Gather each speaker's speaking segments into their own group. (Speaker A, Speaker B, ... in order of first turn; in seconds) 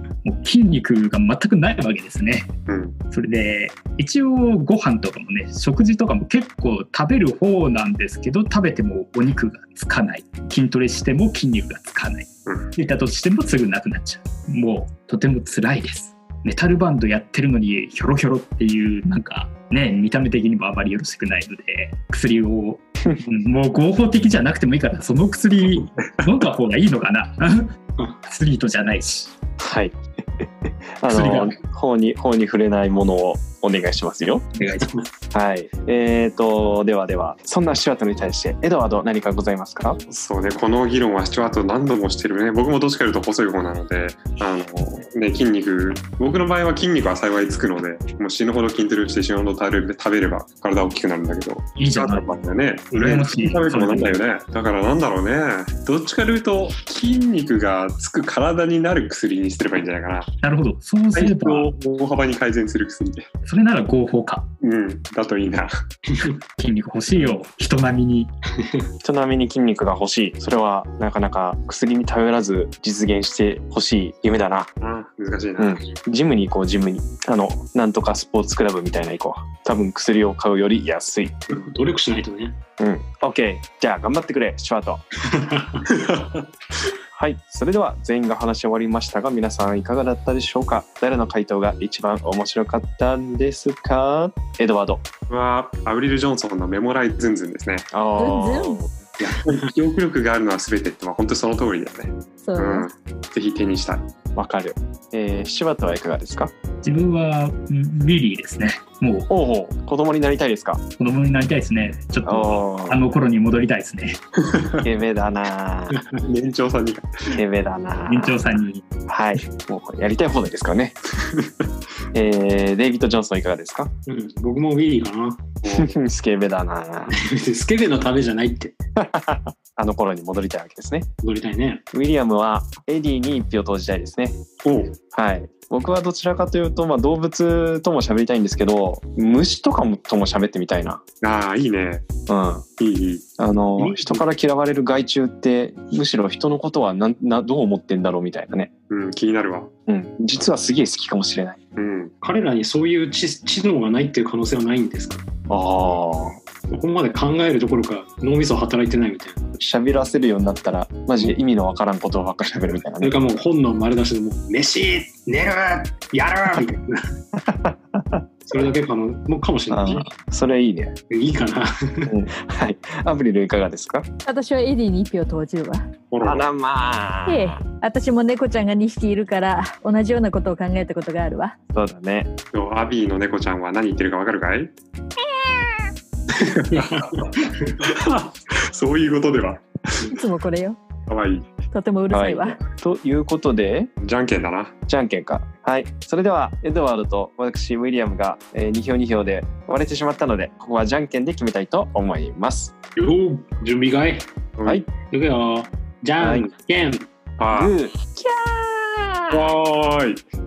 Speaker A: 0.2-2.5, 3.1-27.7, 28.2-29.3, 31.1-31.5, 34.5-34.9, 51.8-52.4, 52.9-54.2, 60.4-61.7, 63.4-64.5, 66.6-68.3, 106.8-109.3, 111.0-114.2, 118.1-118.8
Speaker B: 2.7-3.0, 40.1-60.3, 61.1-63.3, 64.6-65.7, 67.1-67.4, 74.8-75.8, 85.9-86.5, 95.3-97.9, 99.2-104.1, 116.2-117.3, 125.6-126.0, 134.6-134.9, 141.2-142.0, 142.8-143.2, 148.9-149.7, 151.8-152.1, 176.1-176.4, 182.5-184.7, 186.7-190.1, 191.1-191.5, 194.0-194.7, 204.6-204.8, 207.4-207.8, 209.3-210.2
Speaker C: 29.6-29.9, 31.0-34.4, 35.3-40.0, 69.0-74.7, 75.6-81.3, 82.8-85.0, 87.1-95.0, 97.9-98.9, 104.3-106.5, 109.3-110.8, 112.2-113.1, 114.8-116.0, 117.3-118.4, 119.1-121.0, 122.1-123.9, 125.8-127.1, 129.0-131.1, 131.9-134.4, 135.1-141.0, 142.3-142.6, 143.4-148.7, 149.9-151.6, 155.5-156.4, 159.6-163.1, 167.5-168.2, 169.7-170.9, 172.1-174.1, 176.2-177.6, 181.7-182.3, 192.1-193.9, 194.9-202.7, 206.2-206.5, 207.5-209.5
Speaker D: 68.6-68.9, 81.5-82.6, 85.3-85.8, 99.2-99.7, 124.0-125.5, 127.1-128.7, 131.2-131.8, 143.8-144.2, 152.2-155.2, 156.7-159.5, 163.0-167.0, 168.5-170.1, 171.1-172.1, 186.7-187.7, 203.0-204.3, 205.1-207.1
Speaker E: 98.2-98.8, 102.4-102.9, 174.2-175.8, 177.2-181.5, 190.1-190.8, 191.7-192.6